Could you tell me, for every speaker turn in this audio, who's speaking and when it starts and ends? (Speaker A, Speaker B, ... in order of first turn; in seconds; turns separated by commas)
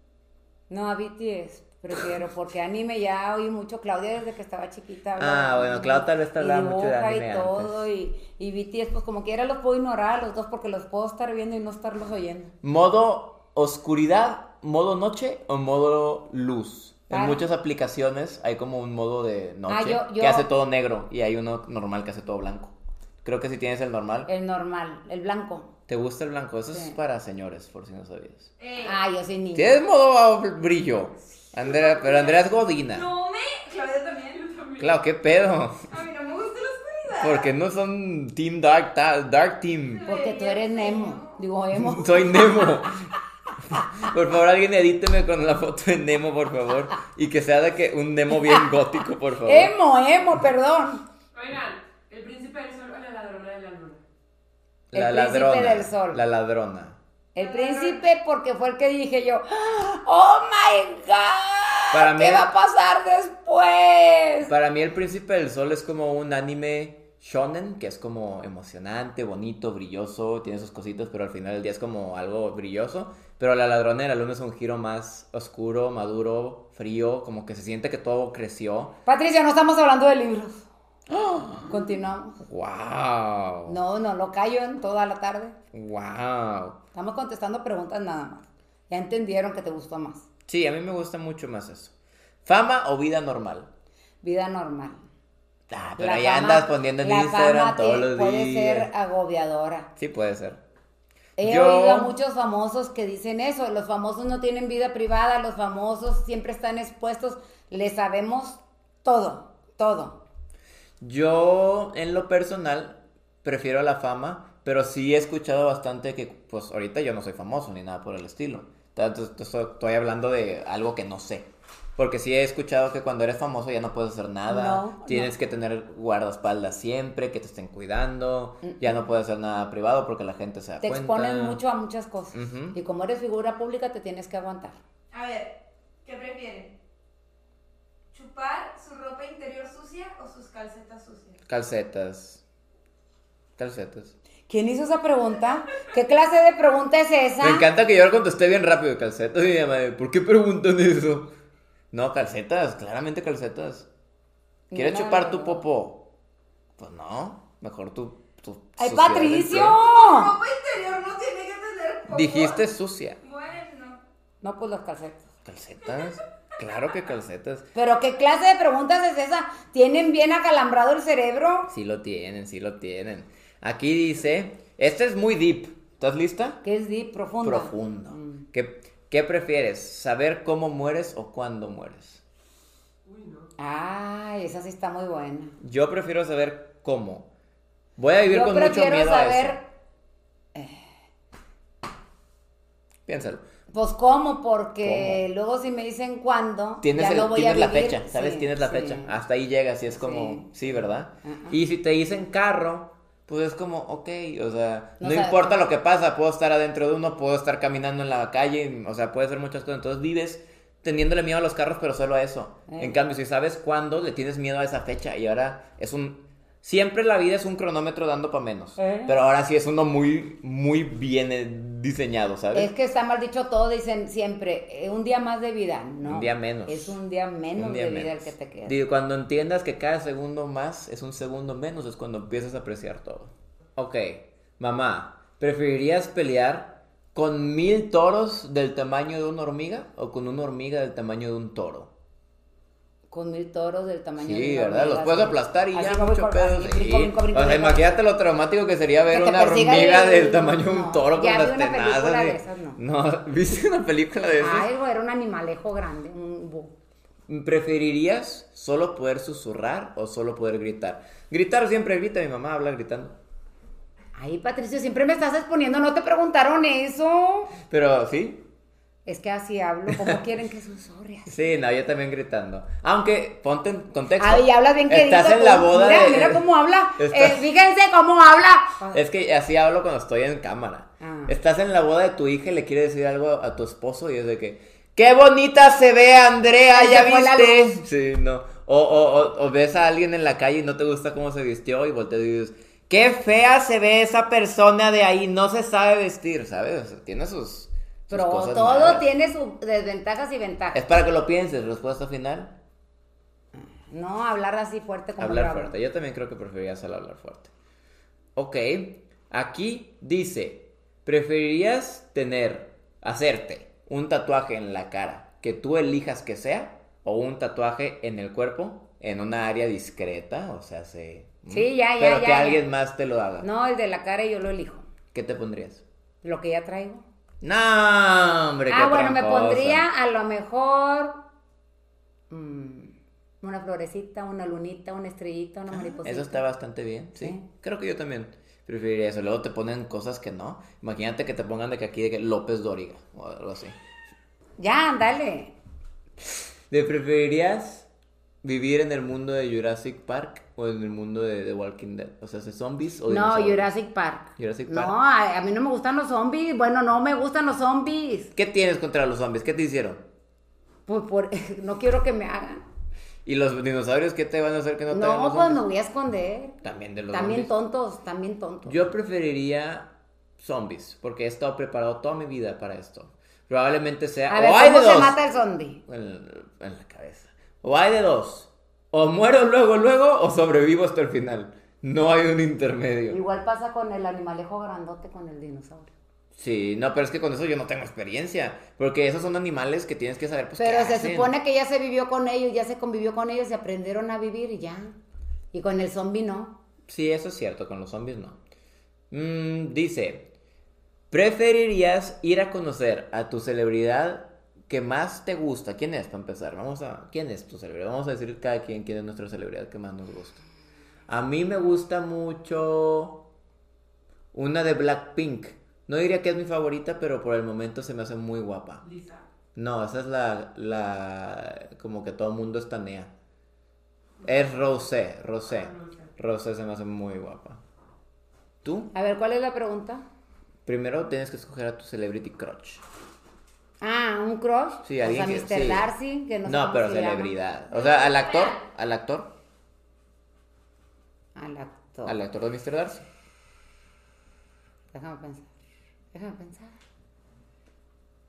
Speaker A: 0.7-12.5, Speaker B: 5.2-7.9, Speaker B: 12.6-24.3, Speaker A: 17.1-17.4, Speaker A: 19.7-20.5, Speaker A: 24.3-25.7, Speaker B: 25.9-28.5, Speaker A: 26.7-27.0, Speaker C: 28.6-29.0, Speaker A: 28.8-29.8, Speaker B: 29.6-33.1, Speaker C: 31.5-34.7, Speaker D: 34.4-35.0, Speaker B: 34.8-35.8, Speaker C: 35.9-37.5, Speaker B: 37.2-40.1, Speaker C: 39.9-41.4, Speaker A: 40.1-42.7, Speaker B: 41.8-43.0, Speaker B: 43.7-49.7, Speaker A: 49.4-51.0, Speaker D: 51.3-54.0, Speaker B: 54.9-57.0, Speaker A: 54.9-56.2, Speaker A: 57.4-64.5, Speaker C: 57.4-58.0, Speaker B: 61.9-62.5, Speaker B: 64.5-79.0, Speaker A: 79.1-80.7, Speaker B: 81.1-81.8, Speaker A: 81.7-82.4, Speaker B: 82.4-83.8, Speaker A: 83.7-85.6, Speaker B: 85.7-86.8, Speaker A: 86.9-90.3, Speaker B: 90.5-91.9, Speaker B: 92.5-93.7, Speaker A: 94.2-95.0, Speaker B: 95.7-98.9, Speaker A: 96.0-99.9, Speaker B: 100.0-100.6, Speaker A: 101.4-110.2, Speaker B: 101.4-102.1, Speaker B: 111.0-131.6, Speaker A: 124.5-125.3, Speaker A: 128.6-128.9, Speaker A: 130.8-134.8, Speaker B: 132.3-132.8, Speaker C: 135.1-136.7, Speaker C: 138.1-141.4, Speaker B: 141.5-142.4, Speaker B: 143.6-144.1, Speaker A: 144.5-147.7, Speaker B: 147.4-151.3, Speaker B: 151.9-153.9, Speaker A: 154.7-155.7, Speaker B: 154.7-156.0, Speaker B: 156.8-159.8, Speaker A: 158.8-160.3, Speaker C: 159.8-162.6, Speaker B: 162.1-163.2, Speaker C: 163.2-164.0, Speaker A: 164.4-165.3, Speaker B: 165.4-167.7, Speaker A: 167.8-171.7, Speaker B: 171.7-176.6, Speaker A: 176.6-178.4, Speaker B: 177.4-182.2, Speaker D: 183.1-183.5, Speaker A: 183.6-185.6, Speaker B: 185.6-187.3, Speaker B: 188.0-189.6, Speaker A: 188.3-189.6, Speaker A: 190.6-190.8, Speaker B: 193.1-193.4, Speaker A: 193.7-199.2, Speaker B: 194.8-195.2, Speaker B: 196.8-222.7, Speaker A: 199.9-201.6, Speaker A: 205.0-205.6, Speaker A: 212.7-213.0, Speaker A: 218.8-219.1, Speaker A: 222.5-228.8, Speaker B: 226.0-227.0, Speaker B: 227.6-241.9, Speaker A: 243.1-247.9, Speaker B: 244.2-254.7, Speaker A: 249.1-252.8, Speaker A: 254.4-256.7, Speaker B: 257.3-263.1, Speaker A: 264.1-267.6, Speaker B: 267.7-268.4, Speaker A: 269.1-271.4, Speaker B: 269.9-270.2, Speaker B: 271.3-276.4, Speaker A: 274.2-279.0, Speaker B: 277.0-277.4, Speaker B: 278.9-299.1, Speaker A: 281.0-281.3, Speaker A: 286.7-287.8, Speaker A: 298.1-300.8, Speaker B: 300.7-302.5, Speaker A: 303.6-305.7, Speaker B: 305.2-307.5, Speaker B: 308.4-323.5, Speaker A: 321.5-322.6, Speaker A: 323.4-324.9, Speaker B: 325.1-325.8, Speaker A: 326.2-327.1, Speaker B: 327.4-329.9, Speaker A: 328.7-331.2, Speaker A: 332.3-336.4, Speaker B: 335.7-343.8, Speaker A: 337.2-337.4, Speaker A: 344.6-345.5, Speaker B: 346.7-347.9, Speaker B: 348.4-353.7, Speaker A: 353.1-358.3, Speaker B: 354.4-354.9, Speaker B: 358.4-360.0, Speaker A: 360.9-362.6, Speaker B: 363.2-365.6, Speaker A: 364.9-366.6, Speaker B: 366.6-367.5, Speaker A: 367.1-368.8, Speaker B: 368.6-369.9, Speaker B: 370.4-375.2, Speaker A: 374.3-375.8, Speaker B: 375.9-383.2, Speaker A: 383.1-385.9, Speaker B: 386.4-391.3, Speaker A: 390.6-395.0, Speaker A: 395.5-396.5, Speaker B: 396.9-398.4, Speaker B: 399.1-400.3, Speaker B: 401.1-410.4, Speaker B: 411.1-413.2, Speaker B: 414.3-418.8, Speaker D: 418.8-419.2, Speaker B: 419.6-423.1, Speaker B: 424.2-427.6, Speaker D: 425.5-426.1, Speaker B: 428.6-428.9, Speaker A: 428.9-430.0, Speaker B: 430.7-432.8, Speaker A: 433.8-437.3, Speaker B: 434.8-435.9, Speaker B: 436.4-439.3, Speaker C: 437.7-438.6, Speaker A: 441.4-442.1, Speaker B: 442.1-443.1, Speaker A: 444.9-445.5, Speaker A: 446.1-446.8